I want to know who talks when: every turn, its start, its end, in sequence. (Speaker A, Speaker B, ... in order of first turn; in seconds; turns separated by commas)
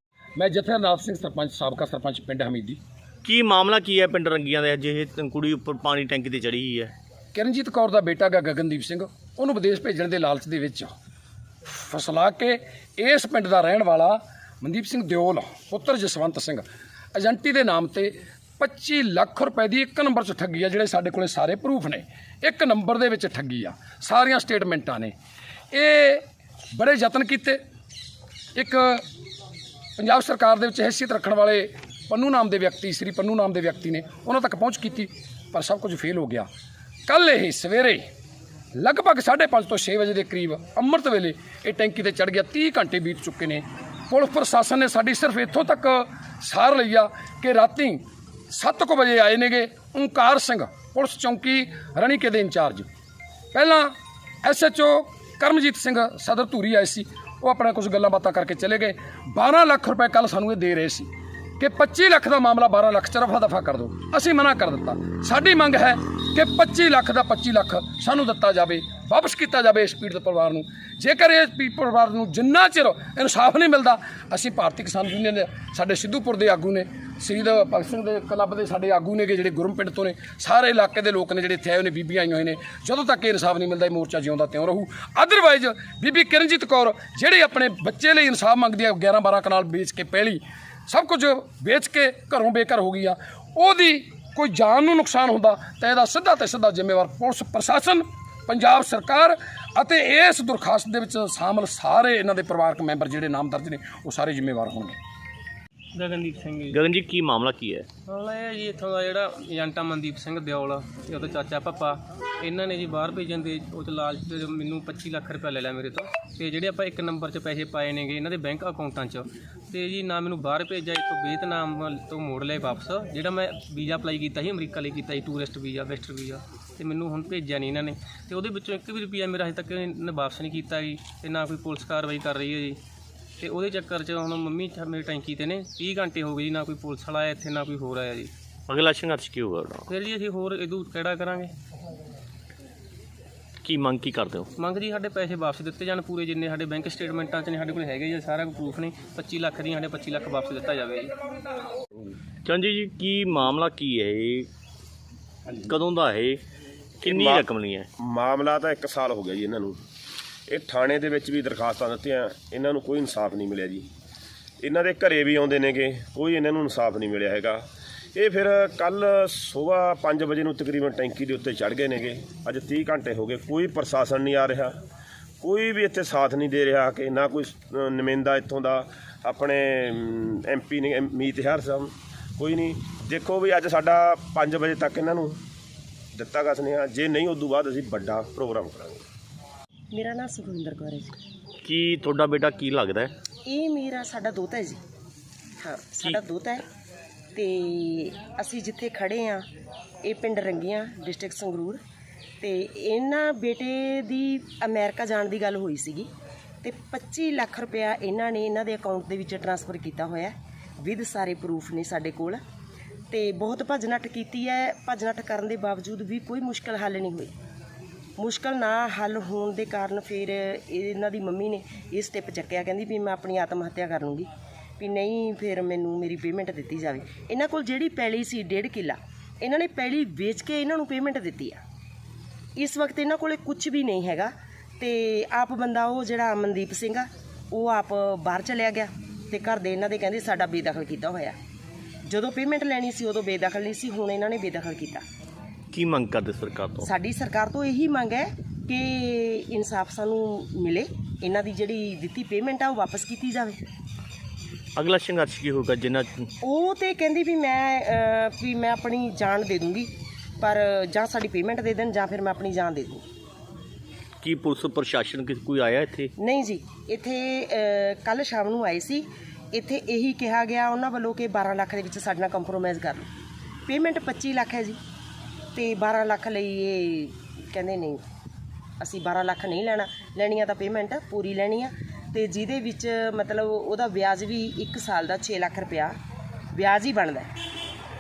Speaker A: 0.4-2.8, Speaker B: 3.2-6.9, Speaker A: 7.3-10.9, Speaker A: 11.7-25.1, Speaker A: 25.7-26.2, Speaker A: 26.8-27.6, Speaker A: 28.6-29.0, Speaker A: 30.0-36.5, Speaker A: 37.1-38.0, Speaker A: 38.8-52.9, Speaker A: 53.5-53.9, Speaker A: 54.4-105.0, Speaker C: 106.0-106.8, Speaker B: 106.7-107.9, Speaker C: 108.1-132.8, Speaker C: 133.4-138.3, Speaker B: 138.7-139.9, Speaker C: 139.9-141.5, Speaker B: 143.6-144.5, Speaker C: 144.6-151.2, Speaker B: 152.4-154.5, Speaker B: 155.5-156.4, Speaker B: 157.0-157.9, Speaker D: 157.0-157.5, Speaker D: 158.0-159.8, Speaker D: 160.5-163.9, Speaker D: 164.6-167.6, Speaker D: 168.2-174.8, Speaker D: 175.4-185.4, Speaker D: 186.2-189.0, Speaker E: 189.9-191.2, Speaker B: 191.6-193.1, Speaker E: 193.5-194.8, Speaker E: 195.6-196.7, Speaker E: 197.3-199.4, Speaker E: 200.0-201.8, Speaker E: 202.4-206.1, Speaker E: 206.6-212.4, Speaker E: 213.1-217.3, Speaker E: 218.2-224.3, Speaker E: 224.8-231.6, Speaker E: 232.6-241.4, Speaker E: 242.1-245.0, Speaker B: 245.7-246.9, Speaker E: 246.8-253.6, Speaker B: 254.8-256.3, Speaker E: 256.4-263.0, Speaker B: 264.2-266.1, Speaker E: 266.2-273.1, Speaker E: 273.7-274.8, Speaker E: 275.6-278.0, Speaker E: 278.8-285.9, Speaker E: 286.5-287.3